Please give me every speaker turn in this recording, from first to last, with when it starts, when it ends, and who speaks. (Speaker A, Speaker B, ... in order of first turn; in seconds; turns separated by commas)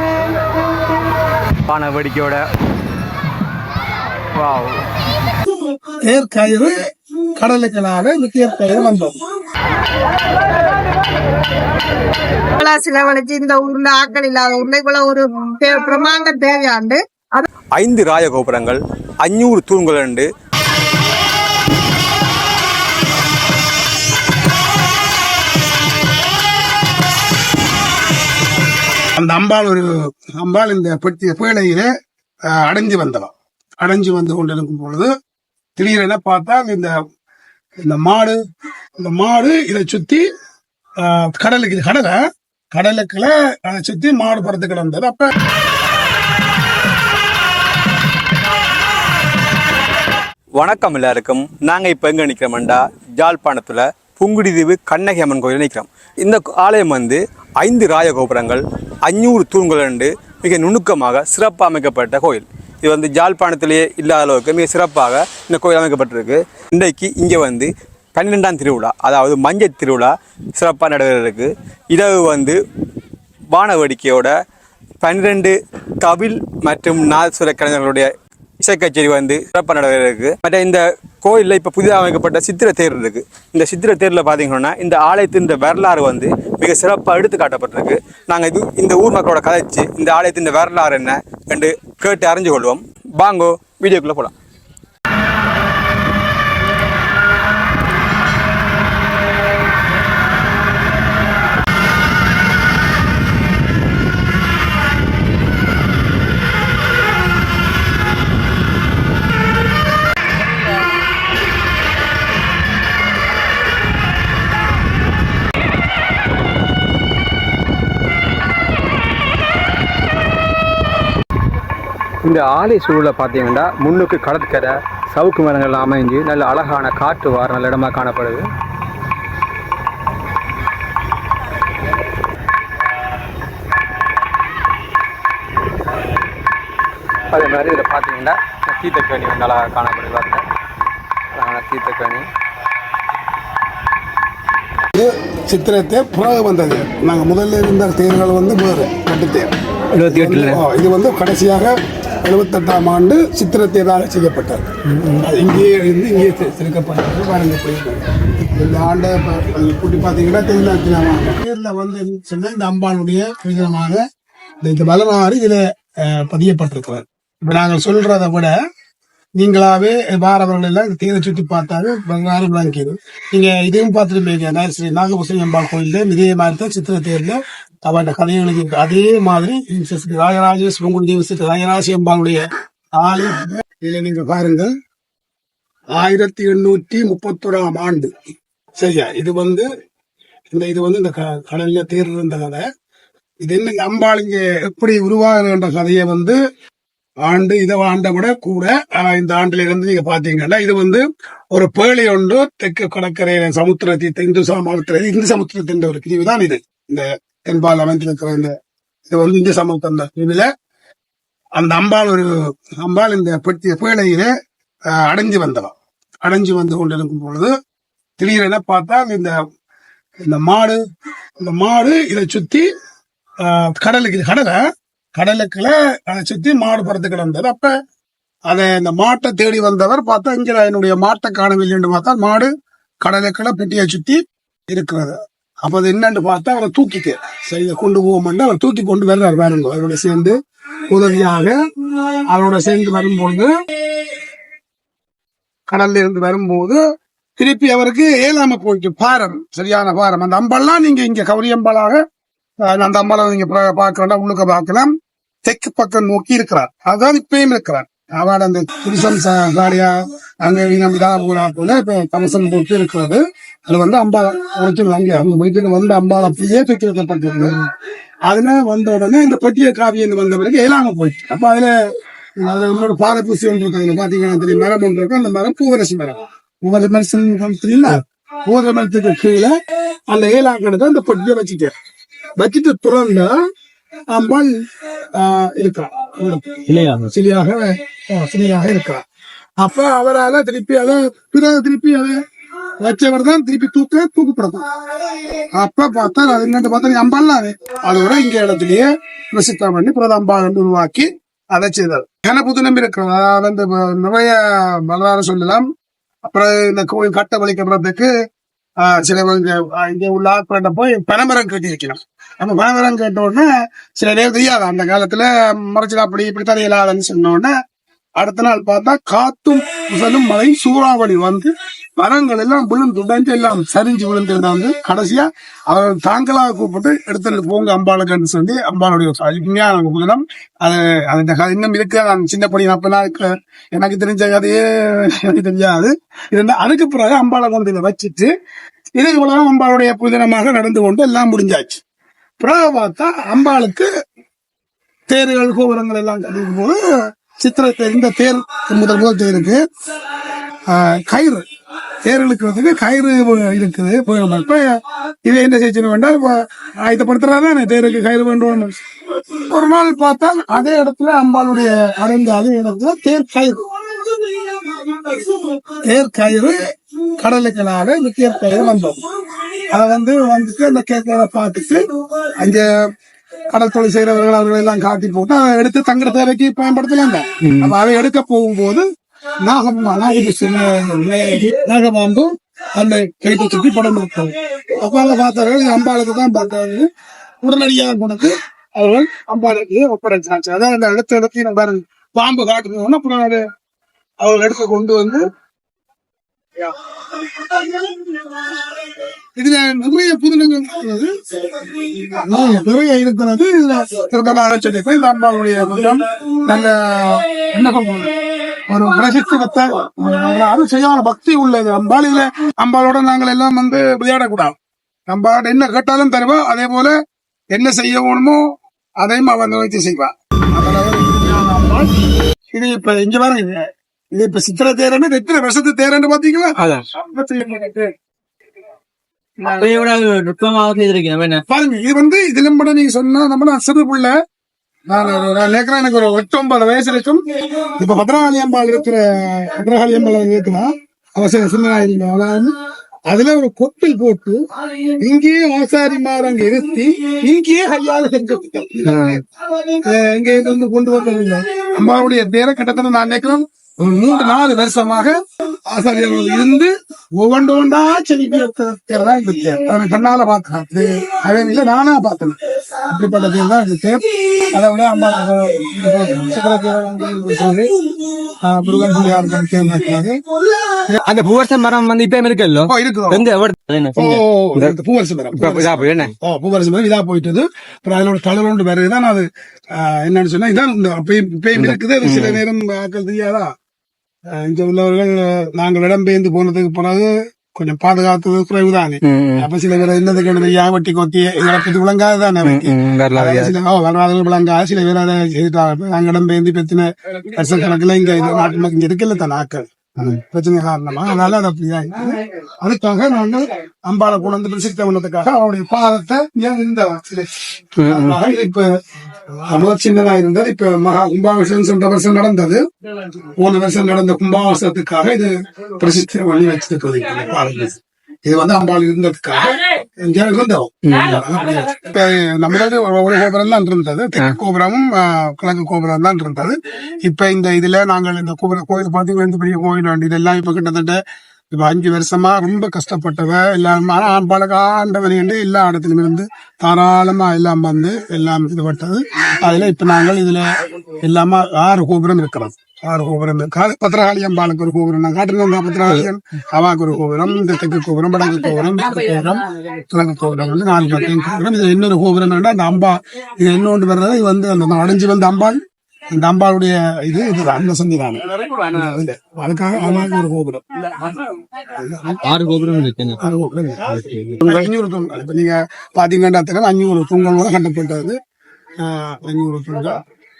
Speaker A: 1.7-2.4, Speaker A: 4.4-4.8, Speaker B: 6.0-6.8, Speaker B: 7.4-9.2, Speaker C: 12.6-17.5, Speaker A: 17.8-20.3, Speaker B: 29.2-31.9, Speaker B: 32.5-35.1, Speaker B: 35.8-36.9, Speaker B: 37.8-38.4, Speaker B: 39.0-40.3, Speaker B: 41.0-42.2, Speaker B: 42.7-45.3, Speaker A: 50.6-72.6, Speaker A: 73.5-74.3, Speaker A: 75.0-94.3, Speaker A: 122.2-128.5, Speaker A: 137.3-140.4, Speaker A: 141.3-142.3, Speaker B: 144.9-149.5, Speaker A: 150.0-150.6, Speaker B: 150.1-158.0, Speaker B: 158.6-164.0, Speaker B: 164.6-168.5, Speaker B: 169.4-184.7, Speaker B: 185.9-188.1, Speaker B: 188.8-189.7, Speaker B: 190.5-192.6, Speaker B: 193.4-196.4, Speaker B: 197.2-208.6, Speaker B: 209.1-210.5, Speaker B: 211.6-214.3, Speaker B: 214.9-217.5, Speaker B: 218.2-219.4, Speaker B: 220.2-220.8, Speaker B: 221.4-222.7, Speaker B: 223.4-224.6, Speaker B: 225.2-227.7, Speaker B: 228.5-232.5, Speaker B: 233.0-240.4, Speaker B: 240.9-243.5, Speaker B: 245.7-246.8, Speaker B: 247.4-252.0, Speaker B: 252.6-254.9, Speaker B: 255.4-267.6, Speaker B: 268.3-271.7, Speaker B: 272.4-279.6, Speaker B: 280.1-281.7, Speaker B: 282.4-283.3, Speaker B: 284.1-284.5, Speaker B: 285.1-289.0, Speaker D: 286.7-287.1, Speaker B: 289.6-292.2, Speaker B: 292.8-294.7, Speaker B: 295.4-305.7, Speaker B: 306.3-308.1, Speaker B: 308.8-317.5, Speaker B: 318.2-338.3, Speaker B: 338.9-341.8, Speaker B: 342.4-343.9, Speaker B: 345.1-346.8, Speaker B: 347.4-349.6, Speaker B: 350.7-351.5, Speaker B: 352.0-366.6, Speaker B: 367.2-372.7, Speaker B: 373.5-378.9, Speaker A: 377.4-377.7, Speaker B: 379.4-386.9, Speaker B: 387.4-393.4, Speaker B: 394.2-395.3, Speaker B: 396.6-398.2, Speaker B: 399.4-414.6, Speaker B: 415.1-417.0, Speaker B: 417.5-418.4, Speaker B: 419.0-427.9, Speaker D: 429.4-431.4, Speaker B: 431.5-434.1, Speaker B: 434.9-437.2, Speaker B: 437.8-442.6, Speaker B: 443.1-444.4, Speaker B: 445.0-470.2, Speaker A: 448.9-449.2, Speaker A: 470.9-473.5, Speaker B: 472.7-473.3, Speaker D: 473.2-474.1, Speaker B: 474.0-483.5, Speaker A: 474.1-474.8, Speaker A: 475.4-476.1, Speaker A: 481.6-482.4, Speaker B: 484.3-508.7, Speaker A: 489.0-489.5, Speaker A: 492.4-493.6, Speaker A: 507.8-508.1, Speaker B: 509.5-531.0, Speaker A: 520.9-521.2, Speaker B: 531.5-540.5, Speaker B: 541.0-555.6, Speaker B: 556.1-561.1, Speaker B: 561.7-562.2, Speaker D: 562.2-563.2, Speaker B: 563.2-568.2, Speaker D: 564.1-564.5, Speaker B: 568.8-570.0